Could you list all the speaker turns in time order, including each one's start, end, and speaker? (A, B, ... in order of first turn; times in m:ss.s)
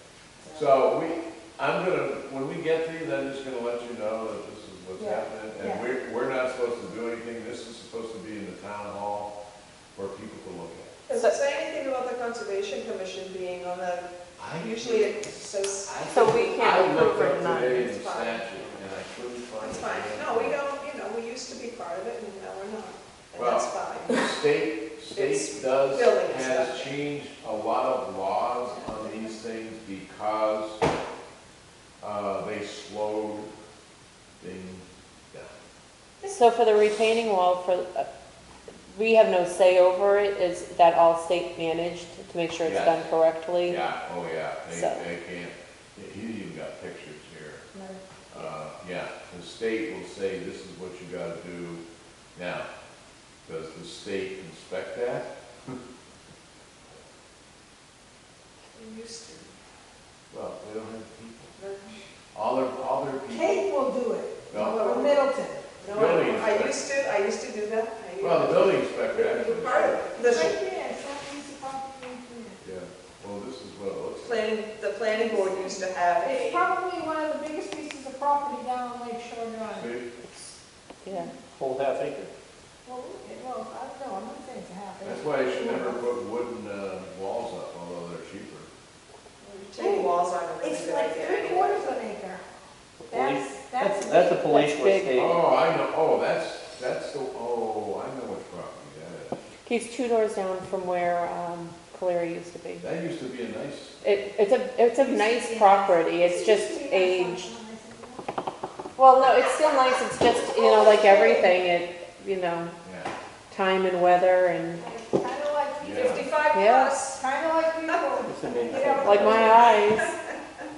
0:00.4-0:00.8 A
0:00.5-0:09.3 B
0:05.0-0:05.2 C
0:05.6-0:05.8 A
0:09.9-0:10.9 B
0:11.0-0:14.1 C
0:14.4-0:15.3 B
0:14.6-0:16.5 C
0:15.8-0:20.6 B
0:16.1-0:17.9 D
0:17.8-0:18.5 C
0:19.6-0:24.2 C
0:23.4-0:30.8 B
0:25.1-0:27.0 C
0:28.6-0:29.4 C
0:32.0-0:33.5 B
0:34.4-0:35.5 B
0:36.3-0:38.1 D
0:38.9-0:43.8 D
0:42.6-0:43.0 B
0:43.6-0:47.6 B
0:44.7-0:45.0 D
0:47.7-0:48.0 A
0:48.3-0:51.8 B
0:52.3-0:52.7 B
0:53.4-0:55.3 B
0:58.7-0:59.5 C
1:00.3-1:01.5 B
1:01.6-1:02.0 C
1:02.3-1:03.7 B
1:03.3-1:05.7 A
1:04.5-1:04.9 B
1:04.5-1:05.3 C
1:05.8-1:10.6 C
1:05.9-1:06.8 B
1:08.2-1:10.0 B
1:10.1-1:12.6 A
1:12.6-1:14.5 B
1:14.2-1:16.7 C
1:15.1-1:19.9 A
1:19.8-1:20.1 B
1:20.2-1:21.3 D
1:21.1-1:21.3 A
1:21.5-1:22.3 E
1:22.8-1:26.1 A
1:25.0-1:28.7 B
1:29.4-1:32.0 C
1:29.8-1:30.1 D
1:30.6-1:32.5 A
1:33.0-1:35.4 E
1:33.1-1:34.8 A
1:34.5-1:35.3 D
1:35.2-1:39.4 B
1:39.6-1:42.8 D
1:42.8-1:43.9 B
1:44.0-1:47.4 D
1:45.0-1:48.3 A
1:49.0-1:52.7 D
1:50.5-1:51.5 C
1:52.8-1:53.1 B
1:53.5-1:54.8 D
1:54.8-1:56.3 A
1:55.8-1:56.2 B
1:55.9-1:57.2 C
1:56.5-1:56.9 D
1:57.0-1:59.8 A
1:58.2-1:59.4 E
1:59.0-2:00.1 D
1:59.4-2:00.4 C